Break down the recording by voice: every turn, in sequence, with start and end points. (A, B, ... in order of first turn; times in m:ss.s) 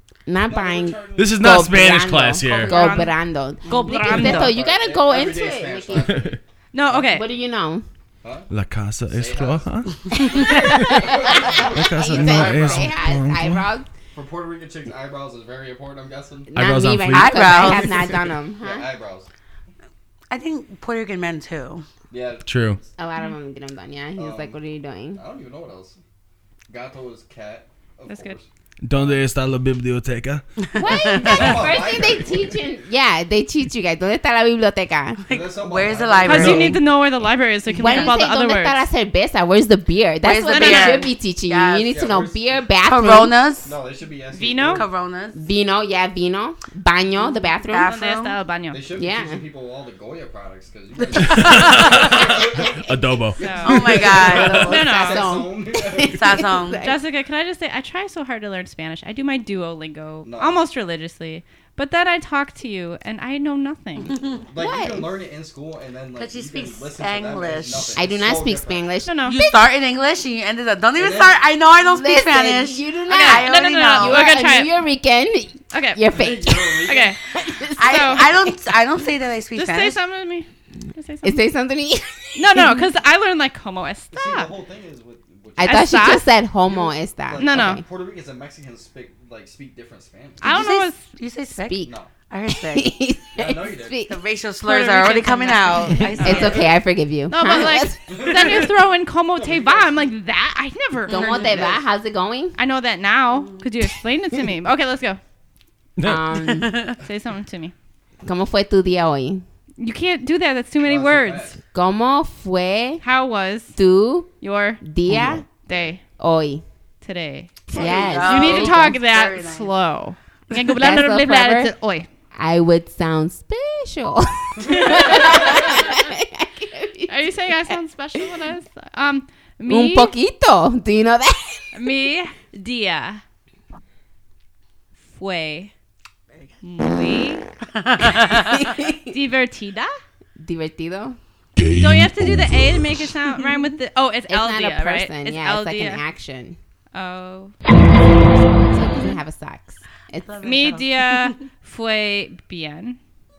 0:00.3-0:06.3 A
0:00.4-0:01.9 B
0:01.2-0:02.9 C
0:02.5-0:04.6 D
0:03.6-0:04.4 E
0:04.0-0:07.1 B
0:06.0-0:06.4 C
0:06.7-0:07.3 D
0:07.0-0:07.8 A
0:08.2-0:08.5 B
0:08.5-0:10.0 C
0:09.1-0:13.0 B
0:10.1-0:13.9 A
0:11.5-0:13.7 C
0:14.1-0:16.5 B
0:16.5-0:18.9 A
0:16.5-0:17.8 C
0:17.1-0:18.1 E
0:17.8-0:19.3 B
0:20.3-0:21.9 E
0:22.1-0:22.9 B
0:22.5-0:22.8 C
0:23.0-0:25.2 A
0:24.2-0:24.6 B
0:25.2-0:26.0 B
0:26.7-0:29.2 B
0:28.1-0:28.4 D
0:28.8-0:30.4 C
0:30.6-0:31.7 E
0:30.8-0:35.3 A
0:31.2-0:32.7 B
0:35.3-0:36.8 E
0:35.3-0:36.7 B
0:36.3-0:38.9 D
0:36.4-0:36.7 C
0:37.7-0:43.4 A
0:37.7-0:38.3 E
0:40.2-0:41.9 E
0:40.5-0:41.1 D
0:41.9-0:42.8 B
0:42.8-0:43.7 E
0:43.6-0:44.9 B
0:44.3-0:44.9 D
0:44.7-0:45.4 E
0:45.3-0:48.0 A
0:47.6-0:48.4 E
0:47.8-0:48.8 D
0:48.7-0:52.9 B
0:49.0-0:49.4 A
0:51.3-0:54.6 C
0:51.5-0:51.9 E
0:52.2-0:52.8 A
0:53.4-0:53.9 D
0:53.4-0:56.4 B
0:53.6-0:54.9 E
0:54.0-0:57.0 A
0:54.7-0:55.3 D
0:56.1-0:56.8 E
0:56.8-1:04.1 D
1:00.2-1:00.6 B
1:04.3-1:08.9 B
1:04.6-1:05.1 A
1:06.2-1:08.0 E
1:08.0-1:09.6 A
1:09.1-1:09.4 D
1:09.3-1:14.3 E
1:11.0-1:11.4 B
1:11.9-1:18.5 A
1:13.1-1:14.8 D
1:15.7-1:16.0 D
1:16.1-1:17.2 B
1:16.8-1:17.2 D
1:17.8-1:20.0 E
1:17.8-1:18.3 D
1:19.6-1:21.4 D
1:21.2-1:22.8 A
1:22.4-1:24.5 D
1:24.1-1:26.1 B
1:25.6-1:27.8 A
1:25.6-1:26.3 D
1:26.7-1:30.5 B
1:27.4-1:27.8 D
1:30.4-1:31.0 D
1:30.4-1:32.9 E
1:31.6-1:31.9 A
1:32.5-1:34.2 A
1:33.4-1:34.0 B
1:34.1-1:36.7 E
1:34.6-1:36.5 D
1:36.2-1:38.4 A
1:36.2-1:36.8 B
1:37.3-1:41.2 D
1:38.1-1:38.7 B
1:39.4-1:40.1 B
1:41.1-1:42.6 A
1:41.1-1:41.8 E
1:42.6-1:45.2 D
1:43.3-1:43.6 E
1:46.0-1:46.5 C
1:46.0-1:47.0 A
1:46.6-1:47.0 E
1:47.0-1:47.7 D
1:48.2-1:49.4 A
1:49.8-1:51.5 D
1:50.8-1:51.6 B
1:51.7-1:53.0 A
1:53.0-1:53.8 D
1:53.8-1:54.3 A
1:54.4-1:54.8 D
1:54.8-1:55.5 A
1:55.7-1:56.0 D
1:56.2-1:56.6 A
1:57.0-2:02.1 D
1:57.7-1:59.0 A
1:57.7-1:59.7 E
2:00.5-2:01.7 A
2:02.4-2:07.2 A
2:04.7-2:05.9 D
2:07.1-2:10.1 D
2:09.7-2:11.8 A
2:11.7-2:13.2 D
2:15.2-2:15.7 D
2:16.6-2:17.5 D
2:17.7-2:18.8 E
2:18.6-2:19.2 A
2:19.1-2:20.0 D
2:20.4-2:21.2 A
2:21.7-2:26.0 D
2:24.3-2:26.6 A
2:26.9-2:27.6 D
2:28.2-2:30.5 A
2:30.2-2:31.4 E
2:30.4-2:33.0 D